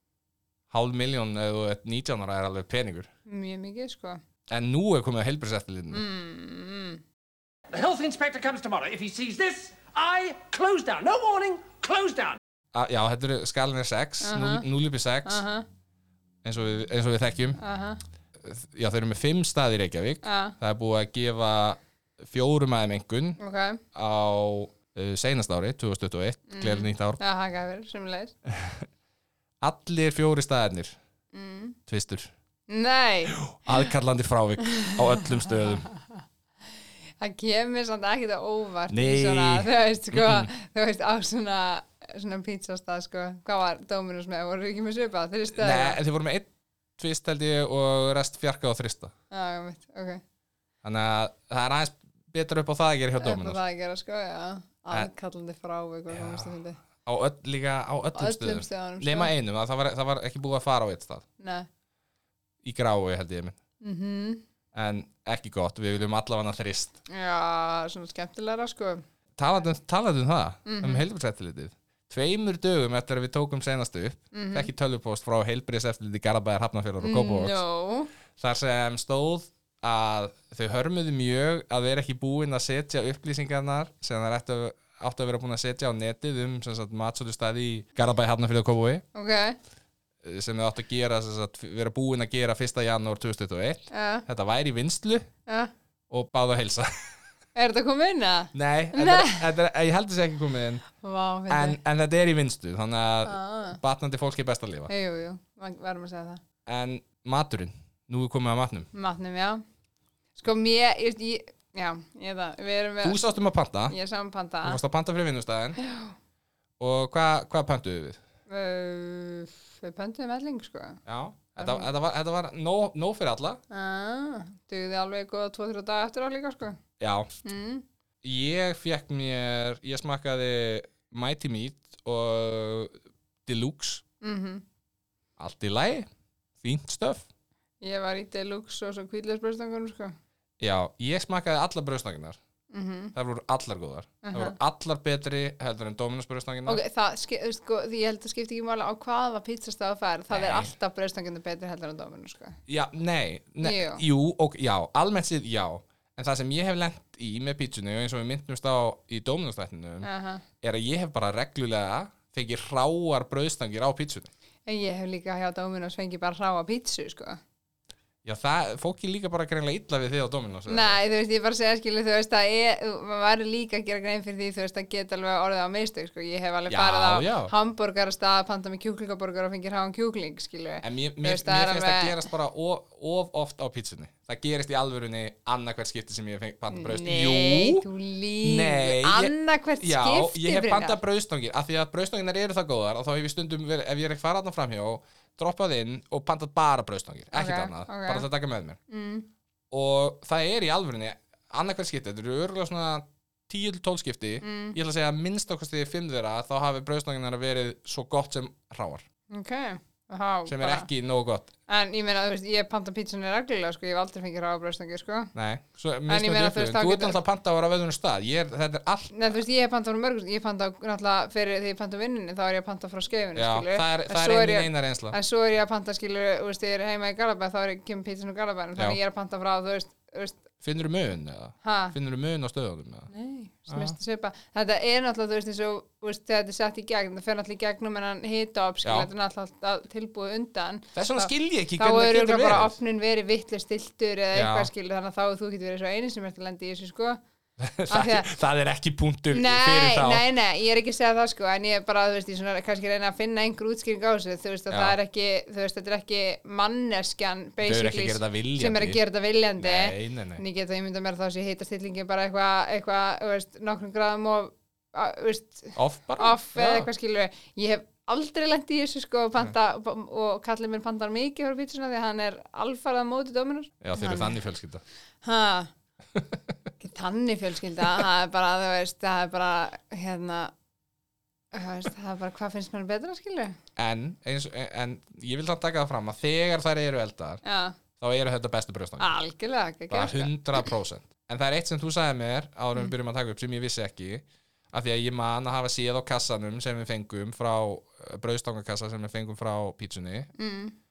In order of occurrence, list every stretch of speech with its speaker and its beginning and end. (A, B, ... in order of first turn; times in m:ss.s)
0:00.7-0:03.1 A
0:03.3-0:04.2 B
0:04.5-0:06.0 A
0:05.9-0:07.0 B
0:07.7-0:12.4 C
0:12.7-0:15.4 A
0:14.2-0:14.7 B
0:15.2-0:15.6 B
0:16.4-0:17.6 A
0:17.6-0:18.0 B
0:18.4-0:23.4 A
0:20.2-0:20.6 B
0:23.4-0:23.8 B
0:23.9-0:27.2 A
0:26.5-0:28.4 B
0:28.4-0:28.9 A
0:29.6-0:31.0 A
0:31.3-0:31.8 B
0:31.9-0:32.3 A
0:32.7-0:33.9 B
0:33.3-0:35.9 A
0:34.6-0:36.2 B
0:37.2-0:46.0 B
0:38.9-0:40.5 A
0:45.5-0:49.1 A
0:49.3-0:50.2 B
0:50.8-0:53.6 A
0:53.2-0:56.8 B
0:56.1-1:01.2 A
0:58.1-0:59.3 B
1:01.4-1:01.7 B
1:02.6-1:03.6 A
1:03.8-1:04.4 B
1:04.7-1:07.0 A
1:07.1-1:09.0 B
1:09.4-1:17.6 A
1:10.6-1:11.0 B
1:14.3-1:14.7 B
1:17.0-1:18.1 B
1:18.4-1:29.0 A
1:29.1-1:29.6 B
1:30.2-1:35.3 A
1:33.9-1:34.2 B
1:35.4-1:35.7 B
1:36.1-1:37.2 A
1:37.5-1:39.5 B
1:38.5-1:40.8 A
1:40.9-1:41.8 B
1:41.5-1:44.9 A
1:43.2-1:43.8 B
1:44.9-1:46.4 B
1:46.6-1:48.9 A
1:48.9-1:49.6 B
1:50.4-1:53.2 B
1:53.0-1:54.0 A
1:53.9-1:54.8 B
1:54.6-1:55.8 A
1:55.8-1:56.2 B
1:56.8-1:58.2 A
1:58.5-2:01.0 B
2:01.0-2:03.6 A
2:01.6-2:01.9 B
2:03.7-2:06.8 B
2:07.0-2:07.3 A
2:07.4-2:07.8 B
2:08.2-2:14.0 A
2:14.2-2:14.6 B
2:15.4-2:16.1 A
2:16.6-2:17.2 A
2:17.8-2:20.1 B
2:20.6-2:22.4 A
2:22.7-2:23.1 B
2:23.1-2:26.8 A
2:24.2-2:24.6 B
2:26.6-2:32.6 B
2:30.3-2:30.7 A
2:32.7-2:40.1 A
2:33.6-2:34.0 B
2:40.0-2:40.4 B
2:40.6-2:44.3 A
2:44.6-2:47.4 B
2:48.2-2:51.0 A
2:50.7-3:02.2 B
2:56.7-2:57.5 A
3:00.8-3:07.9 A
3:06.7-3:11.0 B
3:08.4-3:18.8 A
3:17.3-3:18.3 B
3:18.9-3:19.3 B
3:19.7-3:29.0 A
3:24.4-3:24.8 B
3:29.3-3:30.9 B
3:30.5-3:31.5 A
3:31.7-3:35.3 B
3:35.4-3:39.2 A
3:36.1-3:37.2 B
3:39.1-3:50.4 B
3:43.4-3:45.2 A
3:50.6-3:53.1 A
3:51.6-3:51.9 B
3:53.1-4:07.2 B
3:53.7-3:53.9 A
3:58.8-3:59.1 A
4:00.9-4:02.8 A
4:04.3-4:04.7 A
4:07.6-4:10.2 A
4:07.9-4:08.3 B
4:09.3-4:34.4 B
4:14.7-4:15.0 A
4:17.6-4:19.0 A
4:19.6-4:20.4 A
4:25.8-4:26.9 A
4:33.8-4:34.8 A
4:35.2-4:35.7 B
4:36.1-4:36.5 A
4:36.8-4:40.5 B
4:41.5-4:43.6 B
4:43.8-4:47.4 A
4:47.4-4:47.8 B
4:48.0-4:49.1 A
4:49.0-4:50.7 B
4:49.9-5:00.3 A
5:00.4-5:00.7 B